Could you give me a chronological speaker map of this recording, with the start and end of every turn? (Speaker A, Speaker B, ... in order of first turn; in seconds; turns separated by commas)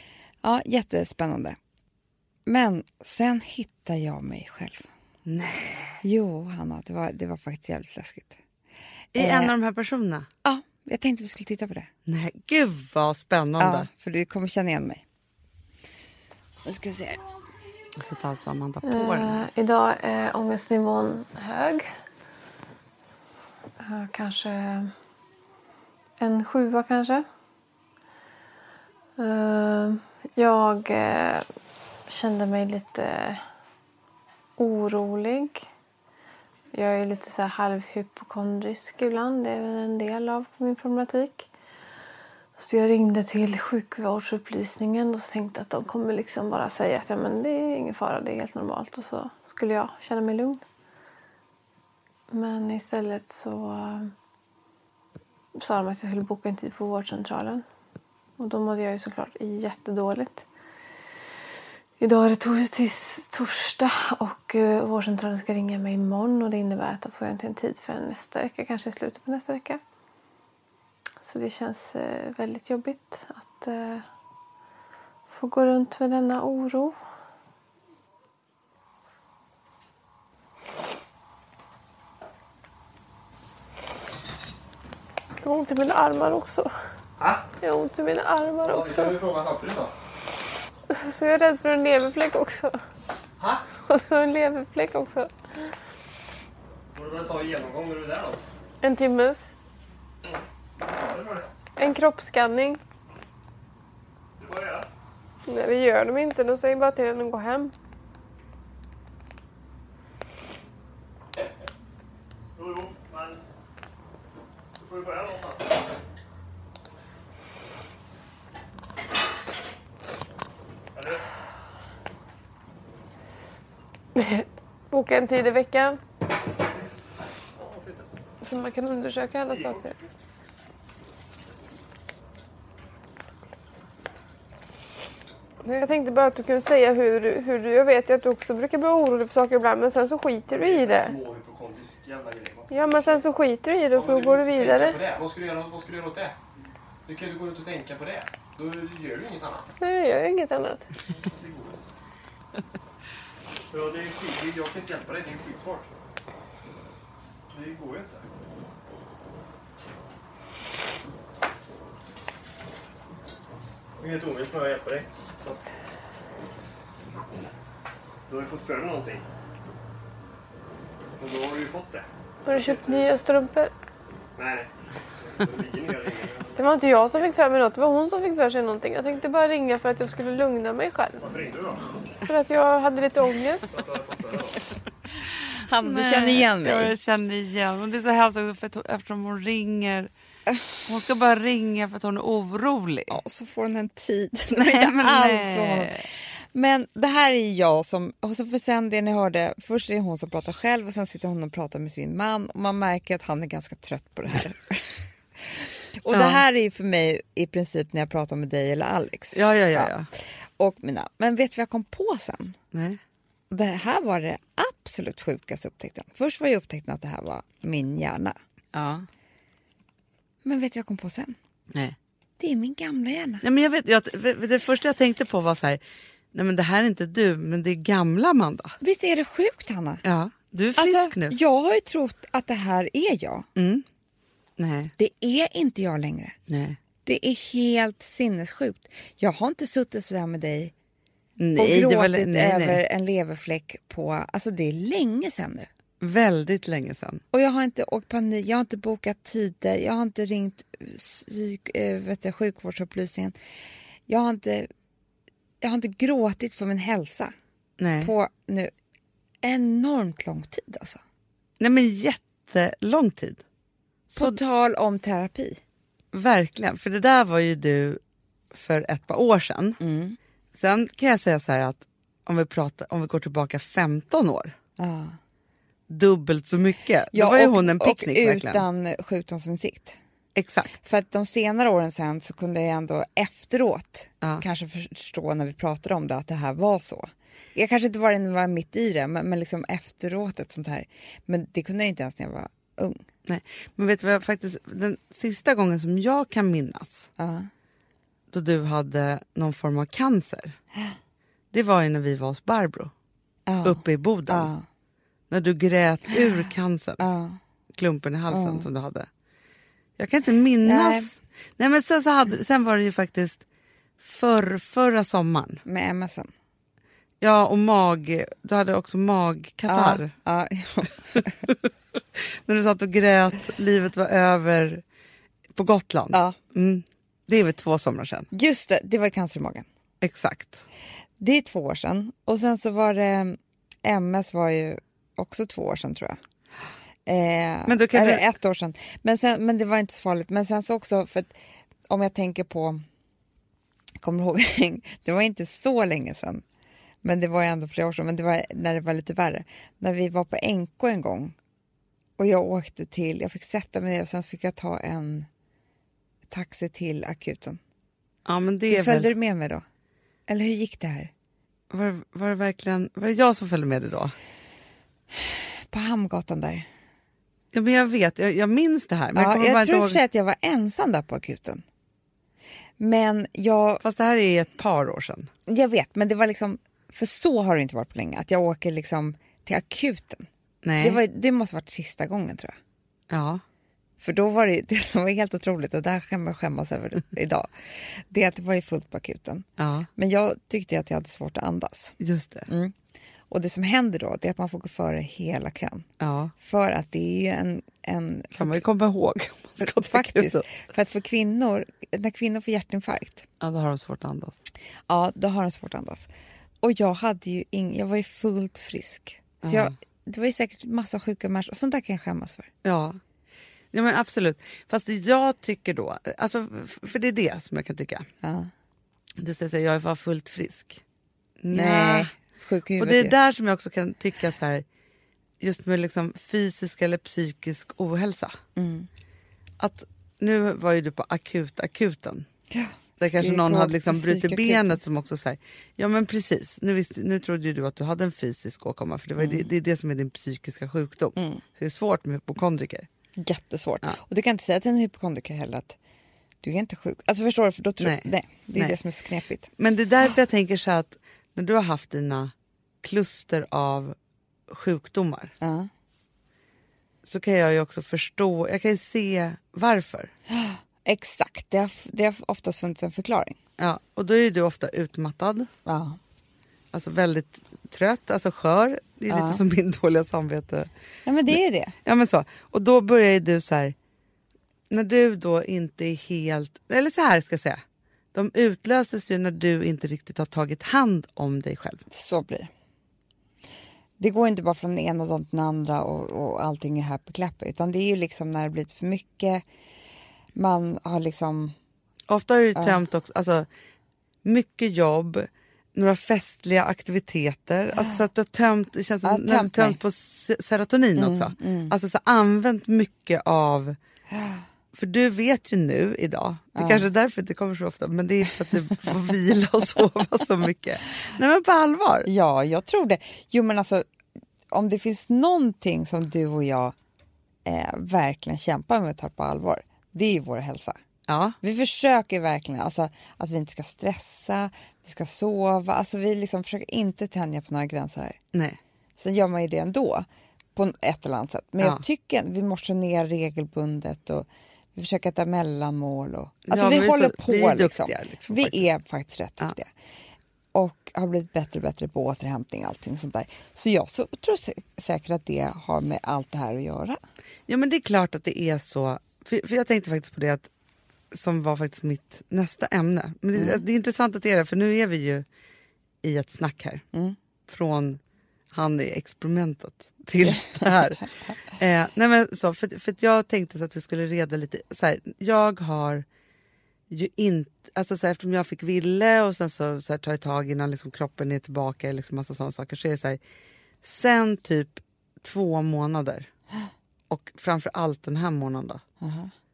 Speaker A: 0.4-1.6, Speaker A: 2.5-4.9, Speaker B: 5.2-6.0, Speaker A: 6.0-8.4, Speaker B: 9.1-10.3, Speaker A: 9.2-9.5, Speaker A: 10.4-11.9, Speaker B: 12.1-13.9, Speaker A: 13.6-15.0, Speaker A: 16.6-17.2, Speaker B: 17.9-19.4, Speaker C: 18.8-21.9, Speaker C: 23.8-24.9, Speaker C: 26.2-27.2, Speaker C: 29.2-31.4, Speaker C: 32.1-33.4, Speaker C: 34.6-35.6, Speaker C: 36.7-41.5, Speaker C: 42.6-50.6, Speaker C: 52.3-54.1, Speaker C: 55.6-57.6, Speaker C: 58.4-60.4, Speaker C: 62.0-69.8, Speaker C: 71.2-74.0, Speaker C: 75.3-77.0, Speaker C: 85.4-86.7, Speaker C: 87.6-89.1, Speaker D: 88.6-89.9, Speaker C: 90.9-92.8, Speaker D: 93.4-93.6, Speaker C: 93.9-95.3, Speaker D: 96.9-98.4, Speaker C: 98.8-99.5, Speaker D: 100.8-101.5, Speaker C: 101.8-102.8, Speaker D: 104.4-104.9, Speaker C: 105.5-107.7, Speaker D: 112.5-113.4, Speaker D: 114.8-115.6, Speaker C: 124.2-126.0, Speaker D: 127.5-128.1, Speaker C: 128.4-130.0, Speaker D: 129.5-129.8, Speaker C: 135.6-141.2, Speaker D: 140.6-143.2, Speaker C: 142.7-145.0, Speaker D: 143.9-146.3, Speaker D: 147.1-149.7, Speaker C: 149.8-150.9, Speaker D: 151.1-151.8, Speaker D: 153.7-155.9, Speaker D: 157.5-158.2, Speaker D: 164.0-165.6, Speaker D: 168.3-169.2, Speaker D: 171.2-173.1, Speaker C: 172.4-173.7, Speaker D: 174.3-174.7, Speaker D: 175.2-176.6, Speaker C: 176.6-181.2, Speaker D: 181.2-181.9, Speaker C: 182.2-183.7, Speaker D: 183.7-184.6, Speaker A: 185.6-186.9, Speaker B: 185.8-190.1, Speaker B: 190.8-193.2, Speaker A: 193.1-209.9, Speaker B: 194.5-196.0, Speaker B: 206.1-206.4, Speaker B: 209.3-210.1, Speaker A: 210.6-212.6, Speaker B: 212.7-213.0, Speaker A: 213.5-218.4, Speaker B: 218.7-219.1, Speaker A: 220.4-221.3, Speaker A: 222.4-223.4, Speaker B: 223.4-225.8, Speaker B: 226.3-228.8, Speaker A: 228.8-230.0, Speaker B: 230.0-231.3, Speaker A: 230.8-233.5, Speaker B: 233.6-233.8, Speaker B: 234.6-234.9, Speaker A: 235.0-236.4, Speaker B: 236.5-236.8, Speaker A: 237.0-240.7, Speaker B: 241.4-242.8, Speaker A: 241.6-245.7, Speaker B: 246.0-247.2, Speaker A: 247.3-253.3, Speaker A: 254.1-254.7, Speaker A: 255.6-257.3, Speaker B: 257.8-258.1, Speaker A: 258.0-258.7, Speaker A: 259.4-261.0, Speaker B: 261.6-263.4, Speaker B: 264.1-264.4, Speaker A: 264.1-265.6, Speaker B: 266.1-268.0, Speaker B: 268.5-269.8, Speaker A: 269.8-270.2, Speaker B: 270.5-274.6, Speaker A: 274.8-275.2, Speaker B: 275.9-278.6, Speaker A: 277.1-280.0, Speaker B: 280.4-280.8, Speaker A: 280.8-293.1, Speaker B: 293.2-297.1, Speaker A: 297.2-297.5, Speaker B: 298.3-300.6, Speaker B: 301.5-302.9, Speaker A: 303.4-304.6, Speaker B: 303.6-304.5, Speaker B: 305.3-307.0, Speaker A: 307.0-307.4, Speaker B: 307.7-309.1, Speaker A: 308.3-308.6, Speaker B: 310.0-313.4, Speaker A: 310.6-311.1, Speaker B: 314.0-315.6, Speaker A: 315.6-316.3, Speaker B: 317.2-320.1, Speaker A: 319.7-321.4, Speaker B: 322.1-324.8, Speaker B: 325.5-328.3, Speaker A: 328.3-329.7, Speaker B: 330.0-330.6, Speaker A: 331.2-336.2, Speaker A: 337.1-341.3, Speaker B: 337.6-338.2, Speaker A: 341.9-342.8, Speaker A: 344.0-346.4, Speaker A: 347.0-351.4, Speaker A: 352.2-355.3, Speaker A: 356.3-357.6, Speaker B: 358.2-359.1, Speaker A: 358.7-359.6, Speaker A: 360.3-361.1, Speaker B: 361.7-364.1, Speaker A: 365.1-366.7, Speaker B: 367.5-370.0, Speaker A: 369.1-371.6, Speaker A: 372.8-373.8, Speaker B: 373.8-375.3, Speaker A: 375.5-380.3, Speaker B: 380.6-381.0, Speaker A: 380.8-382.6, Speaker B: 383.1-383.4, Speaker A: 384.0-392.7, Speaker B: 389.6-389.9, Speaker B: 392.0-392.5, Speaker A: 393.3-395.9, Speaker B: 396.0-396.3, Speaker A: 396.4-398.6, Speaker B: 398.3-400.5, Speaker A: 399.6-403.2, Speaker B: 403.4-404.4, Speaker A: 404.9-406.1, Speaker A: 406.6-412.5, Speaker B: 409.4-409.7, Speaker B: 412.6-413.0, Speaker B: 413.7-418.1, Speaker A: 418.2-418.5, Speaker B: 419.2-420.8, Speaker B: 421.4-422.1, Speaker A: 421.5-423.1, Speaker B: 422.8-424.6, Speaker B: 425.4-428.4, Speaker A: 428.6-428.9, Speaker B: 429.6-432.3, Speaker A: 432.5-434.8, Speaker B: 433.0-442.9, Speaker A: 439.2-439.4, Speaker A: 441.2-441.4, Speaker A: 443.2-445.8, Speaker A: 446.4-449.5, Speaker B: 447.8-448.8, Speaker B: 449.6-453.9, Speaker B: 454.5-455.3, Speaker A: 455.4-455.7, Speaker B: 457.1-460.1, Speaker A: 460.3-463.4, Speaker B: 463.6-465.5, Speaker A: 465.6-466.0, Speaker B: 466.7-470.7, Speaker A: 469.1-469.4, Speaker A: 471.1-471.7, Speaker B: 471.3-473.7, Speaker B: 474.7-477.6, Speaker B: 478.1-481.8, Speaker A: 481.9-482.5, Speaker A: 484.0-489.4, Speaker A: 490.3-491.6, Speaker B: 492.1-493.5, Speaker B: 494.2-503.8, Speaker A: 499.0-499.8, Speaker A: 500.9-501.7, Speaker A: 504.1-504.4, Speaker B: 504.7-512.1, Speaker A: 506.5-506.9, Speaker A: 512.0-513.8, Speaker A: 514.5-516.7, Speaker A: 517.4-520.8, Speaker B: 521.1-521.4, Speaker A: 521.4-528.2, Speaker B: 528.3-528.6, Speaker A: 529.0-539.7, Speaker B: 536.5-538.6, Speaker A: 540.5-547.0, Speaker B: 547.5-550.5, Speaker B: 551.1-555.2, Speaker A: 553.3-553.6, Speaker B: 556.0-556.8, Speaker B: 557.5-558.0, Speaker B: 558.5-566.0, Speaker B: 566.9-573.2, Speaker B: 573.8-576.3, Speaker B: 577.1-578.8, Speaker A: 579.0-579.3